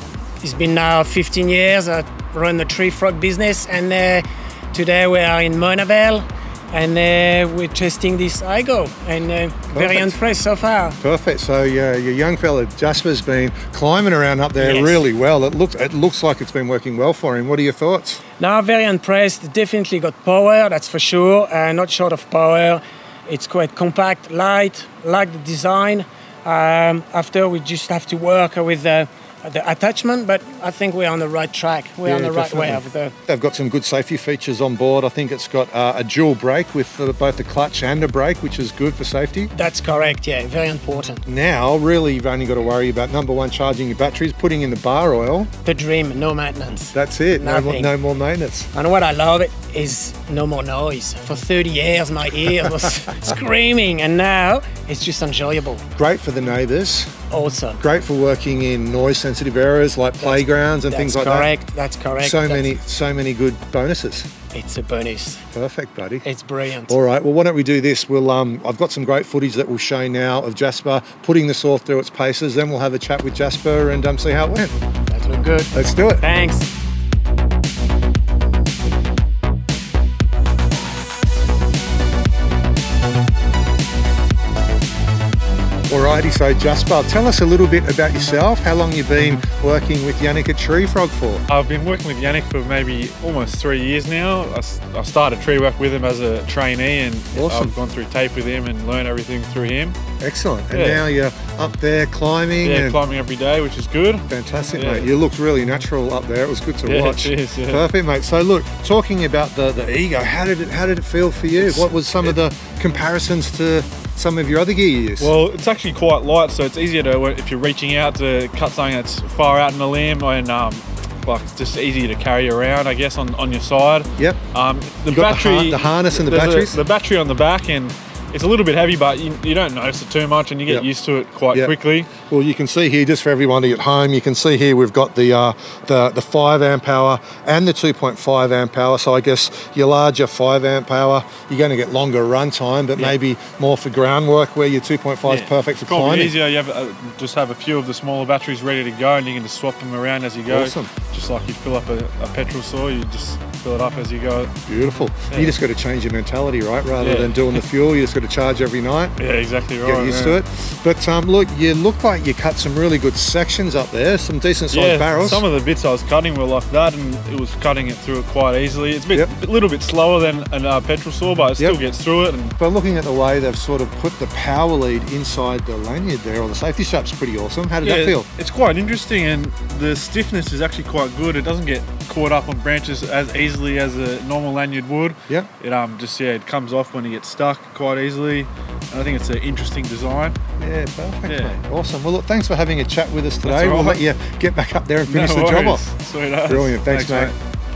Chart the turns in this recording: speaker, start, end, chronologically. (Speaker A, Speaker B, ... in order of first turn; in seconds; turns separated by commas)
Speaker A: 0.4-11.0, Speaker B: 9.7-10.2, Speaker B: 11.0-18.2, Speaker A: 14.6-15.0, Speaker A: 18.4-33.1, Speaker B: 32.0-39.5, Speaker A: 39.5-41.2, Speaker B: 41.3-45.5, Speaker A: 45.6-47.9, Speaker B: 46.9-48.7, Speaker A: 48.7-55.9, Speaker B: 56.0-57.1, Speaker A: 57.3-57.8, Speaker B: 57.8-61.5, Speaker A: 60.2-62.7, Speaker B: 62.2-64.3, Speaker A: 64.5-65.4, Speaker B: 65.5-66.2, Speaker A: 66.2-67.0, Speaker B: 66.9-74.8, Speaker A: 75.1-76.7, Speaker B: 75.7-76.2, Speaker B: 85.9-91.4, Speaker C: 91.5-100.0, Speaker B: 97.3-97.8, Speaker B: 100.2-103.0, Speaker C: 100.7-101.0, Speaker C: 102.6-105.1, Speaker B: 104.3-115.3, Speaker C: 106.8-107.9, Speaker C: 111.6-112.4, Speaker C: 115.2-132.1, Speaker B: 125.1-126.8, Speaker B: 132.2-146.4, Speaker C: 145.2-154.5, Speaker B: 150.5-150.9, Speaker B: 154.7-159.2, Speaker C: 155.3-155.6, Speaker C: 157.0-157.6, Speaker C: 159.2-160.4, Speaker B: 159.8-165.4, Speaker C: 164.7-172.6, Speaker B: 172.6-178.3, Speaker C: 177.8-190.4, Speaker B: 190.6-195.9, Speaker C: 191.3-191.6, Speaker C: 193.4-194.0, Speaker C: 195.1-197.3, Speaker B: 196.5-197.3